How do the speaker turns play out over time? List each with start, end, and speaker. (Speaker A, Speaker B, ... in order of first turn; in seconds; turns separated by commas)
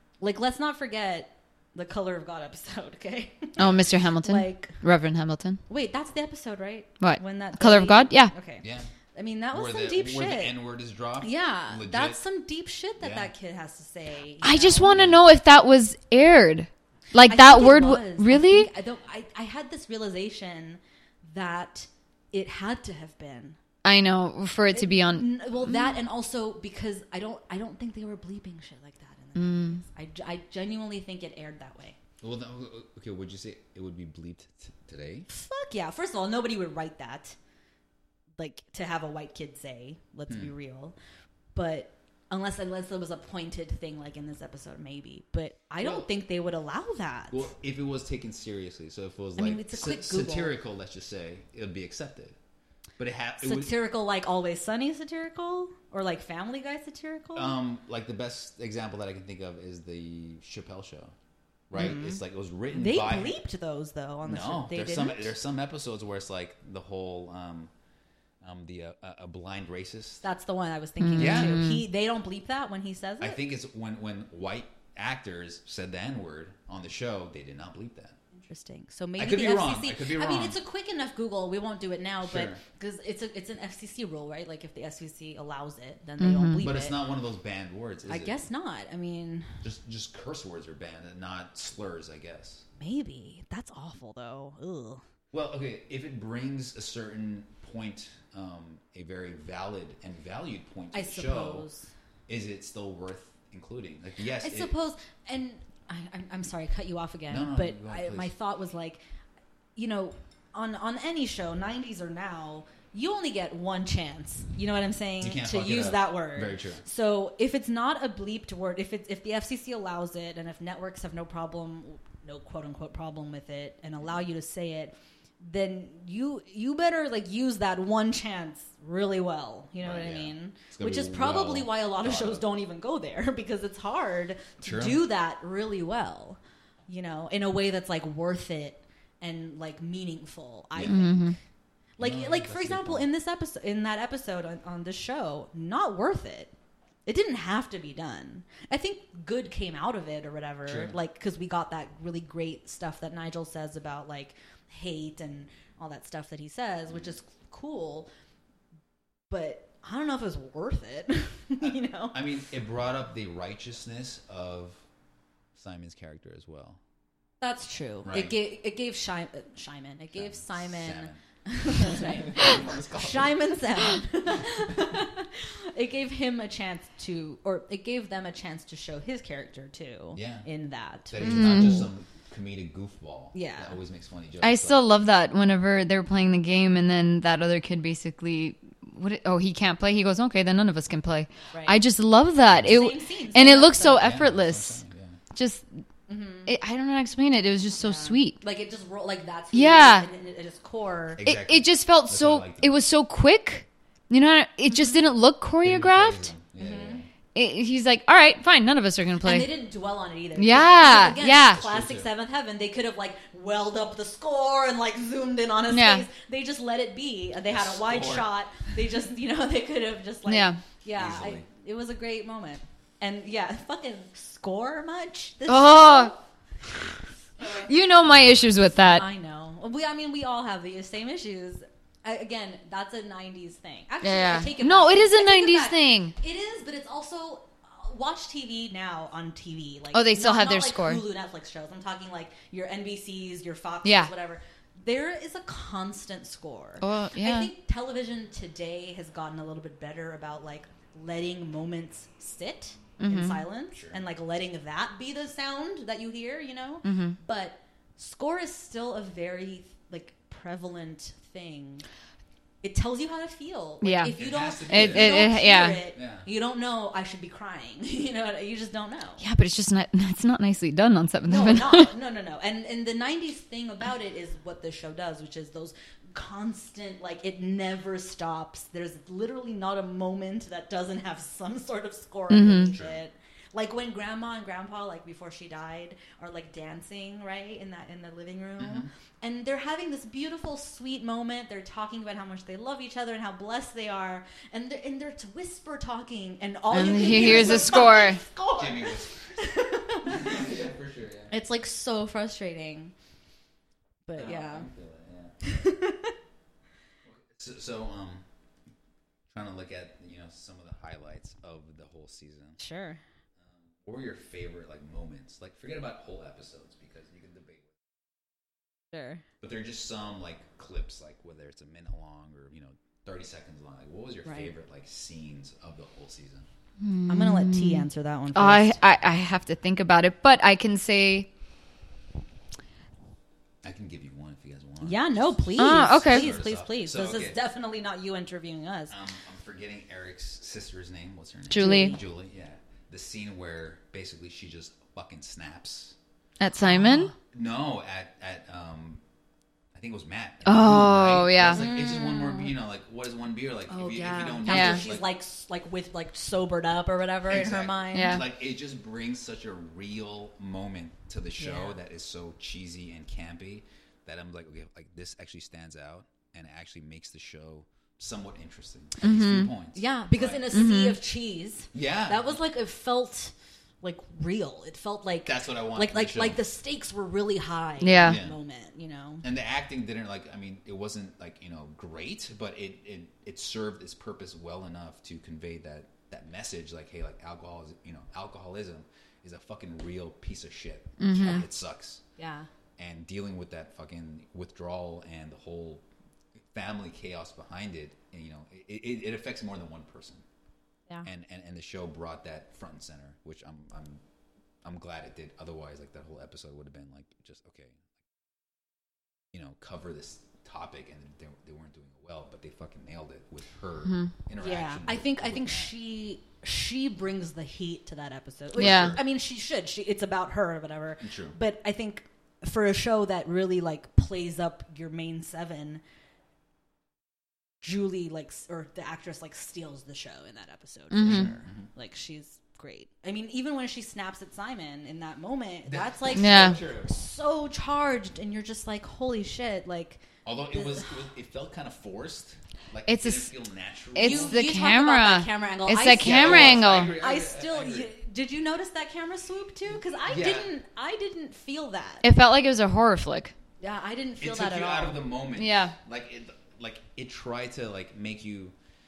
Speaker A: 0.2-4.8, Speaker B: 3.6-3.9, Speaker C: 3.6-5.6, Speaker A: 5.7-10.6, Speaker C: 7.0-8.3, Speaker B: 8.6-8.9, Speaker B: 9.5-12.2, Speaker A: 11.2-15.0, Speaker B: 13.0-13.3, Speaker C: 14.4-18.7, Speaker B: 14.9-15.2, Speaker A: 17.2-23.6, Speaker C: 23.8-25.9, Speaker A: 24.7-31.9, Speaker C: 29.4-29.8, Speaker B: 32.2-35.3, Speaker A: 35.3-37.4, Speaker A: 38.4-40.9, Speaker A: 41.5-47.5, Speaker B: 45.8-46.1, Speaker B: 47.3-52.4, Speaker A: 49.4-50.5, Speaker B: 53.0-53.7, Speaker A: 53.4-57.5, Speaker B: 57.3-61.1, Speaker B: 61.7-63.4, Speaker A: 61.7-62.2, Speaker A: 62.7-65.3, Speaker B: 64.2-67.7, Speaker B: 68.4-70.2, Speaker A: 70.2-73.4, Speaker C: 71.0-71.8, Speaker B: 71.2-71.7, Speaker B: 73.2-78.2, Speaker A: 78.3-87.0, Speaker B: 79.2-80.6, Speaker B: 82.2-82.6, Speaker C: 86.2-86.6, Speaker B: 86.6-88.4, Speaker A: 88.1-89.6, Speaker B: 89.6-92.6, Speaker A: 92.8-95.0, Speaker B: 95.3-101.7, Speaker A: 100.9-101.9, Speaker B: 102.3-104.7, Speaker A: 104.4-109.0, Speaker B: 107.3-108.3, Speaker A: 109.8-141.4, Speaker B: 115.2-116.8, Speaker B: 129.8-132.4, Speaker B: 134.6-135.0, Speaker C: 140.8-141.4, Speaker A: 142.0-146.5, Speaker B: 142.0-143.1, Speaker A: 147.1-158.1, Speaker B: 150.7-150.9, Speaker A: 159.3-162.2, Speaker B: 161.6-164.8, Speaker B: 165.5-166.8, Speaker A: 167.4-181.8, Speaker B: 168.0-168.4, Speaker B: 170.1-173.3, Speaker B: 180.1-180.4, Speaker B: 181.1-184.9, Speaker C: 181.2-181.9, Speaker A: 183.3-183.8, Speaker C: 184.4-194.8, Speaker A: 191.5-191.8, Speaker A: 192.5-194.1, Speaker B: 194.0-195.2, Speaker C: 195.3-195.7, Speaker A: 196.1-196.5, Speaker C: 196.4-198.4, Speaker A: 197.8-201.2, Speaker C: 199.5-200.1, Speaker B: 201.2-202.8, Speaker C: 201.2-206.3, Speaker B: 205.6-207.1, Speaker A: 206.6-207.0, Speaker C: 207.3-209.5, Speaker A: 209.2-226.2, Speaker C: 210.3-211.6, Speaker B: 211.4-212.1, Speaker C: 215.7-216.1, Speaker B: 217.5-218.4, Speaker C: 220.2-220.6, Speaker B: 220.9-221.4, Speaker C: 225.5-226.1, Speaker C: 227.4-229.0, Speaker A: 228.9-261.8, Speaker C: 234.0-236.1, Speaker C: 239.9-241.0, Speaker C: 243.8-244.1, Speaker C: 246.8-247.5, Speaker C: 253.0-253.4, Speaker B: 253.7-254.0, Speaker C: 256.8-257.2, Speaker A: 262.6-269.2, Speaker C: 263.8-264.1, Speaker B: 264.1-265.3, Speaker C: 264.7-265.8, Speaker B: 265.9-266.2, Speaker C: 269.2-271.9, Speaker A: 271.3-300.4, Speaker C: 282.3-282.7, Speaker B: 282.7-283.0, Speaker B: 288.6-288.9, Speaker C: 296.7-298.2, Speaker B: 296.9-298.0, Speaker B: 298.5-301.3, Speaker A: 301.3-302.9, Speaker A: 304.1-304.7, Speaker B: 304.2-305.4, Speaker A: 305.4-306.1, Speaker B: 307.0-308.2, Speaker B: 309.3-312.6, Speaker A: 312.6-313.0, Speaker B: 313.4-317.8, Speaker A: 318.9-319.2, Speaker B: 319.4-326.5, Speaker A: 324.2-324.5, Speaker C: 326.8-331.3, Speaker A: 327.1-328.8, Speaker B: 333.6-337.4, Speaker A: 334.8-338.9, Speaker C: 335.6-336.3, Speaker B: 338.9-346.0, Speaker C: 341.5-341.9, Speaker A: 341.6-342.0, Speaker C: 346.4-347.1, Speaker A: 346.6-347.1, Speaker B: 347.2-349.0, Speaker B: 349.7-355.1, Speaker C: 350.4-351.6, Speaker A: 351.4-352.5, Speaker A: 353.7-358.2, Speaker C: 354.4-354.8, Speaker B: 357.3-370.4, Speaker C: 357.9-358.2, Speaker A: 361.4-361.8, Speaker C: 369.0-369.5, Speaker A: 369.7-379.2, Speaker C: 370.5-371.0, Speaker B: 371.7-372.4, Speaker B: 375.2-376.4, Speaker C: 377.8-378.2, Speaker B: 378.0-378.4, Speaker B: 379.2-392.0, Speaker C: 391.0-391.4, Speaker A: 391.1-391.4, Speaker A: 392.2-392.5, Speaker B: 392.8-395.8, Speaker B: 396.5-400.2, Speaker B: 401.0-404.0, Speaker B: 404.6-407.9, Speaker B: 409.3-415.7, Speaker C: 413.9-414.1, Speaker A: 414.4-425.8, Speaker B: 418.6-419.0, Speaker C: 418.6-419.0, Speaker B: 421.0-421.4, Speaker A: 427.6-440.9, Speaker C: 430.9-431.3, Speaker B: 431.0-431.7, Speaker B: 435.6-436.9, Speaker C: 436.1-436.6, Speaker B: 440.2-444.4, Speaker C: 442.9-443.3, Speaker C: 443.9-446.9, Speaker A: 444.0-452.0, Speaker B: 446.0-447.9, Speaker B: 450.1-450.5, Speaker C: 452.0-453.3, Speaker A: 453.6-455.0, Speaker B: 454.2-458.5, Speaker C: 455.4-455.7